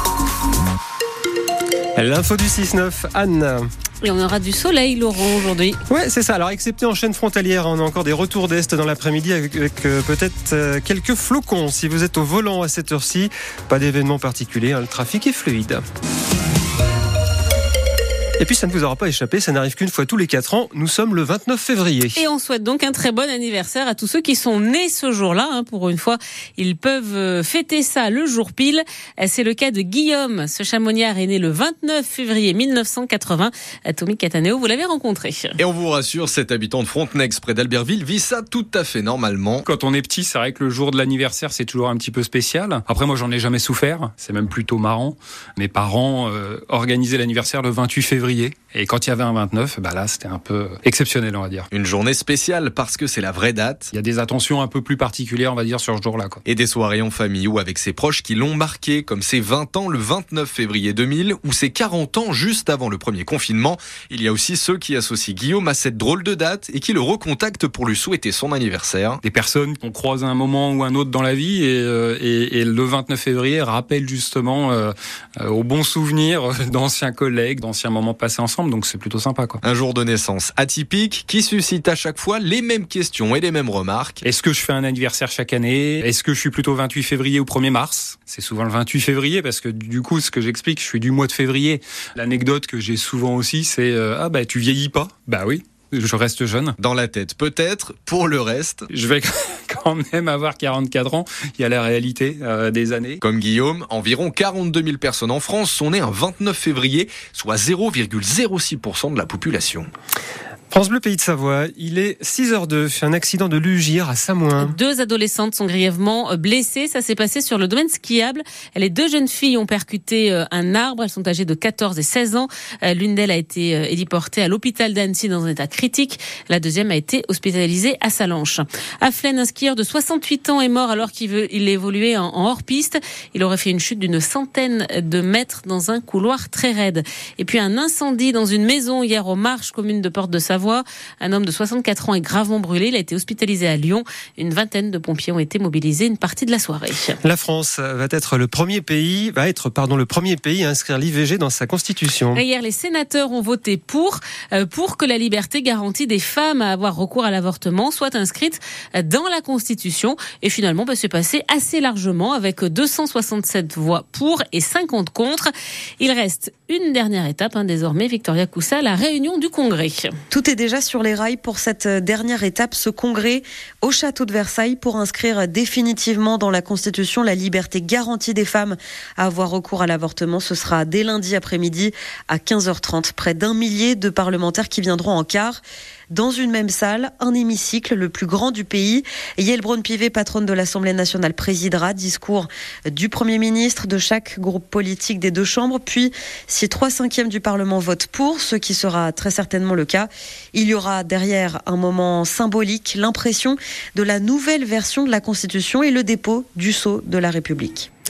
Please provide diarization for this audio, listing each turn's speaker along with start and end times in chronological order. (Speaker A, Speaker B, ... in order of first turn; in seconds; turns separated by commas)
Speaker A: 2.0-3.7, Speaker B: 4.0-5.8, Speaker A: 5.9-15.8, Speaker A: 18.4-22.2, Speaker B: 22.1-35.5, Speaker C: 35.6-39.6, Speaker D: 39.6-51.7, Speaker C: 51.7-53.9, Speaker D: 53.9-56.4, Speaker C: 56.5-69.2, Speaker D: 69.2-79.6, Speaker C: 79.6-84.2, Speaker D: 84.2-96.7, Speaker C: 96.8-98.9, Speaker D: 98.9-103.2, Speaker C: 103.2-109.9, Speaker A: 110.7-114.7, Speaker B: 114.6-147.2, Speaker A: 147.2-152.4, Speaker B: 152.3-165.5, Speaker B: 166.0-170.1, Speaker E: 170.3-207.9